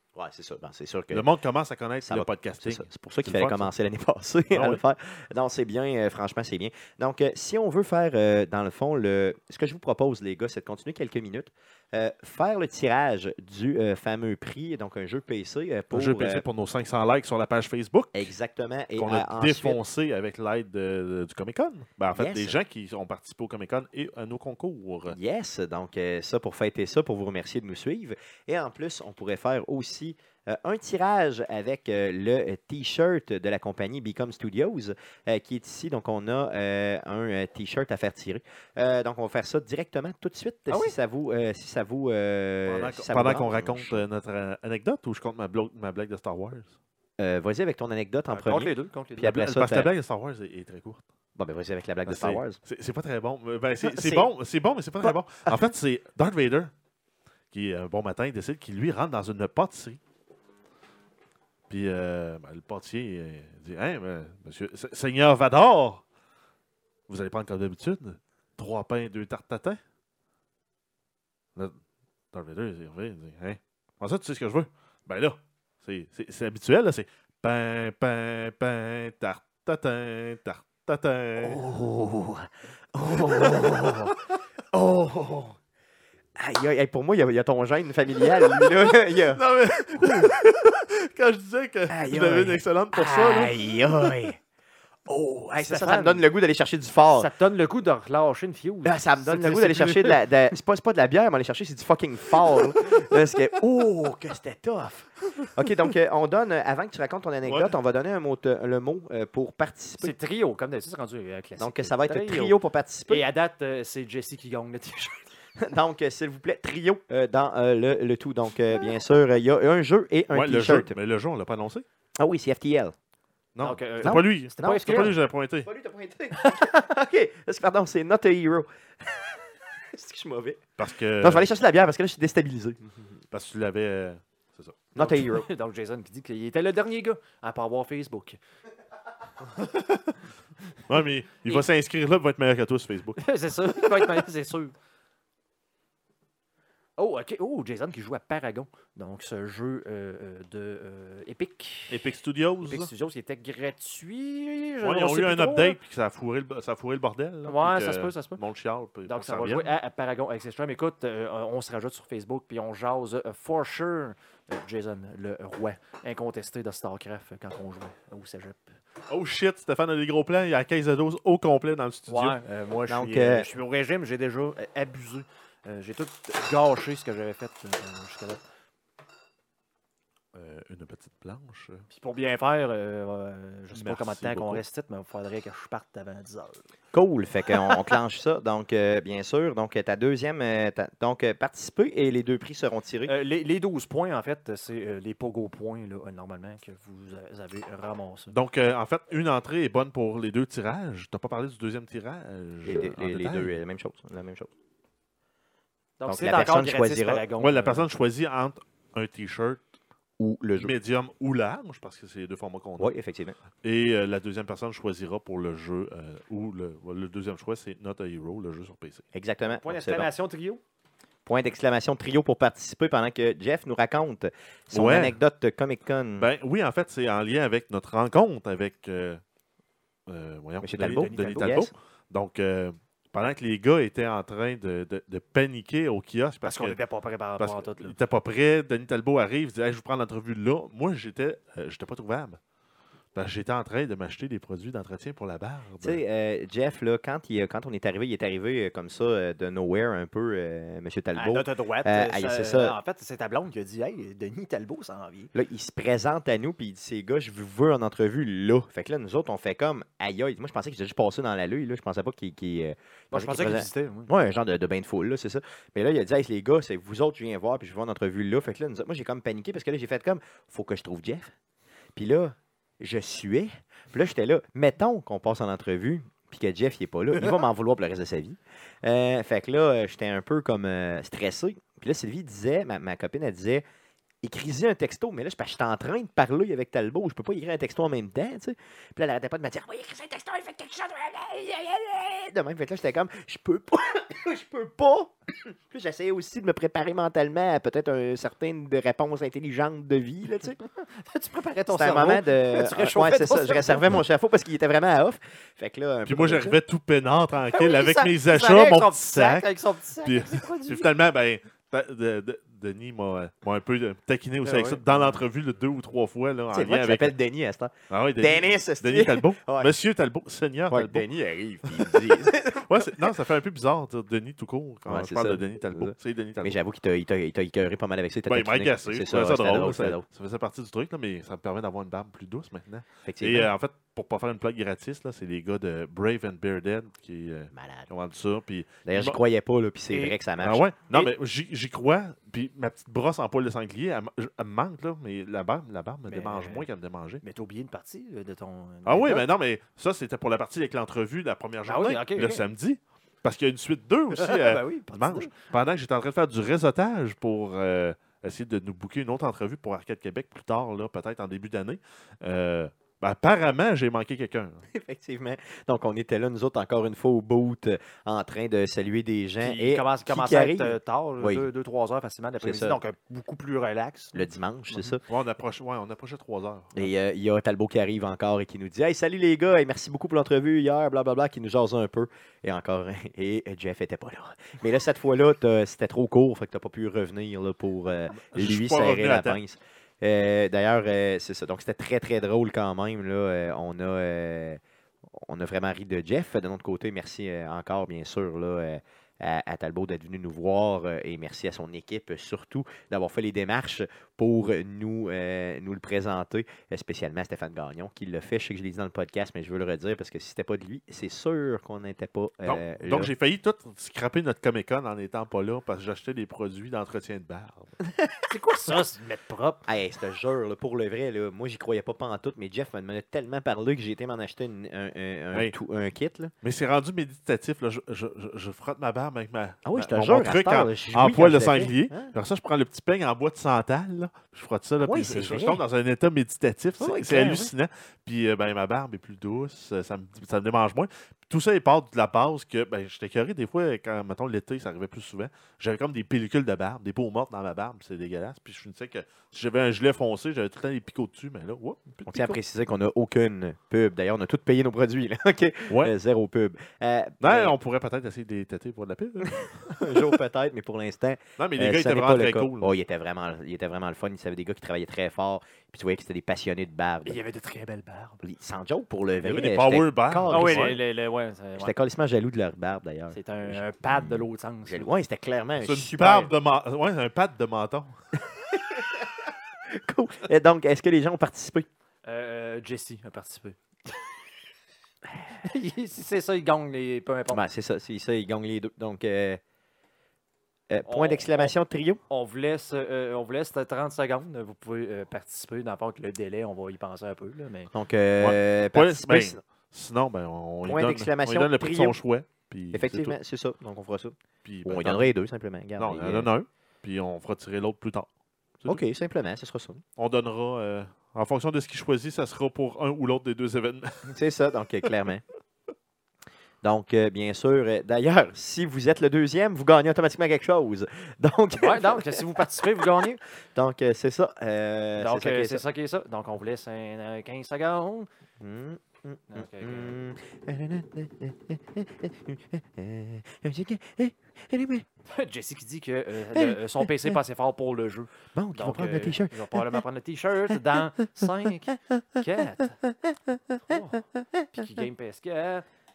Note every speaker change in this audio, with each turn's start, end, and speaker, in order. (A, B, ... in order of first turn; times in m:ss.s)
0:00.1-0:01.3 A
0:01.1-0:03.7 B
0:02.0-0:16.4 A
0:04.5-0:04.8 B
0:15.9-0:18.3 B
0:18.1-0:19.8 A
0:19.0-0:25.2 B
0:22.1-0:22.6 A
0:25.1-0:44.0 A
0:40.7-0:41.0 C
0:42.6-0:46.7 B
0:47.2-0:49.9 A
0:48.3-0:49.4 C
0:49.2-0:51.0 B
0:51.4-0:52.6 A
0:52.0-0:56.7 B
0:53.8-0:54.3 A
0:55.0-0:55.6 A
0:57.5-1:00.0 B
1:01.7-1:06.0 B
1:07.1-1:09.8 B
1:12.3-1:21.6 B
1:21.4-1:24.2 A
1:23.3-1:23.7 B
1:24.7-1:25.6 A
1:26.4-1:29.4 A
1:28.3-1:33.8 B
1:30.0-1:30.5 A
1:31.9-1:34.4 A
1:35.1-1:37.3 A
1:35.6-1:36.2 C
1:37.1-1:40.2 C
1:38.8-1:50.1 A
1:47.4-1:47.7 B
1:50.0-1:52.5 C
1:51.6-1:53.2 A
1:53.1-1:55.2 C
1:55.6-2:01.0 A
2:00.3-2:01.8 B
2:02.2-2:02.9 A
2:03.5-2:05.7 B
2:03.6-2:05.1 C
2:04.0-2:12.9 A
2:06.4-2:06.7 C
2:10.8-2:11.5 B
2:13.3-2:14.9 B
2:14.9-2:15.5 A
2:15.0-2:18.4 C
2:19.6-2:20.1 B
2:20.9-2:24.2 B
2:23.2-2:24.7 C
2:27.0-2:32.1 C
2:31.9-2:32.9 B
2:32.6-2:35.8 C
2:34.8-2:39.6 B
2:37.4-2:38.4 C
2:39.1-2:48.7 C
2:49.1-2:52.4 B
2:52.1-2:58.4 C
2:52.9-2:53.4 A
3:00.3-3:01.9 B
3:01.9-3:06.6 C
3:03.7-3:04.6 B
3:06.9-3:13.1 A
3:13.0-3:18.3 C
3:18.3-3:23.5 B
3:22.6-3:24.5 A
3:26.0-3:27.8 C
3:26.0-3:27.2 A
3:27.4-3:29.6 B
3:30.2-3:30.7 A
3:30.6-3:32.9 B
3:32.8-3:33.4 A
3:33.6-3:39.0 B
3:39.1-3:40.1 A
3:39.5-3:40.6 C
3:41.2-3:46.3 A
3:44.7-3:45.2 B
3:46.2-3:49.2 B
3:50.1-3:56.8 B
3:50.6-3:51.7 A
3:50.8-3:51.7 C
3:56.4-3:57.9 C
3:57.4-4:02.4 B
4:03.1-4:06.0 B
4:05.8-4:12.8 A
4:11.1-4:15.3 C
4:15.3-4:31.3 A
4:23.1-4:24.1 C
4:31.9-4:43.6 A
4:44.2-5:00.6 A
5:00.7-5:04.0 C
5:01.7-5:06.6 A
5:06.0-5:17.1 B
5:07.5-5:10.9 C
5:14.4-5:15.2 C
5:16.5-5:19.7 A
5:17.9-5:21.0 B
5:20.7-5:23.1 A
5:21.6-5:26.6 B
5:24.8-5:30.0 A
5:28.3-5:39.2 B
5:33.0-5:33.5 A
5:37.5-5:37.9 A
5:38.8-5:40.6 A
5:39.9-5:40.2 C
5:40.4-5:47.2 B
5:46.1-5:46.6 C
5:47.2-5:49.3 C
5:48.8-6:04.6 B
5:51.6-5:52.4 C
5:54.1-5:55.4 C
6:04.7-6:11.4 A
6:09.4-6:15.0 C
6:12.4-6:12.8 A
6:14.1-6:15.0 A
6:15.1-6:16.9 B
6:16.7-6:34.6 A
6:28.2-6:29.4 B
6:35.1-6:53.1 A
6:52.4-6:57.7 B
6:58.3-6:59.6 C
6:59.6-7:06.3 A
7:06.4-7:32.4 B
7:09.6-7:12.1 A
7:14.8-7:15.6 A
7:16.8-7:17.5 A
7:32.1-7:37.6 A
7:35.7-7:35.9 B
7:37.2-7:40.1 B
7:39.2-7:47.2 A
7:41.4-7:42.7 B
7:47.0-7:48.2 C
7:48.2-7:50.8 A
7:49.2-7:50.8 B
7:50.3-7:51.7 C
7:51.6-7:56.3 A
7:53.1-7:54.9 C
7:55.6-7:58.0 B
7:58.5-8:01.7 A
8:02.0-8:03.6 C
8:05.2-8:07.4 C
8:07.3-8:09.4 A
8:10.7-8:12.0 A
8:10.8-8:11.5 C
8:12.1-8:17.7 C
8:17.7-8:19.4 A
8:18.2-8:23.2 B
8:20.6-8:22.0 A
8:22.7-8:26.3 A
8:24.4-8:25.1 B
8:25.8-8:28.1 B
8:28.7-8:29.8 A
8:30.0-8:34.1 B
8:34.0-8:35.2 A
8:36.6-8:43.0 A
8:41.6-8:43.2 C
8:43.5-8:45.6 A
8:45.0-8:48.1 C
8:48.4-8:54.8 A
8:49.3-8:50.0 C
8:55.1-9:02.8 C
8:56.3-8:57.1 A
8:58.3-8:59.8 A
9:01.2-9:01.7 A
9:02.8-9:04.5 A
9:03.6-9:05.6 C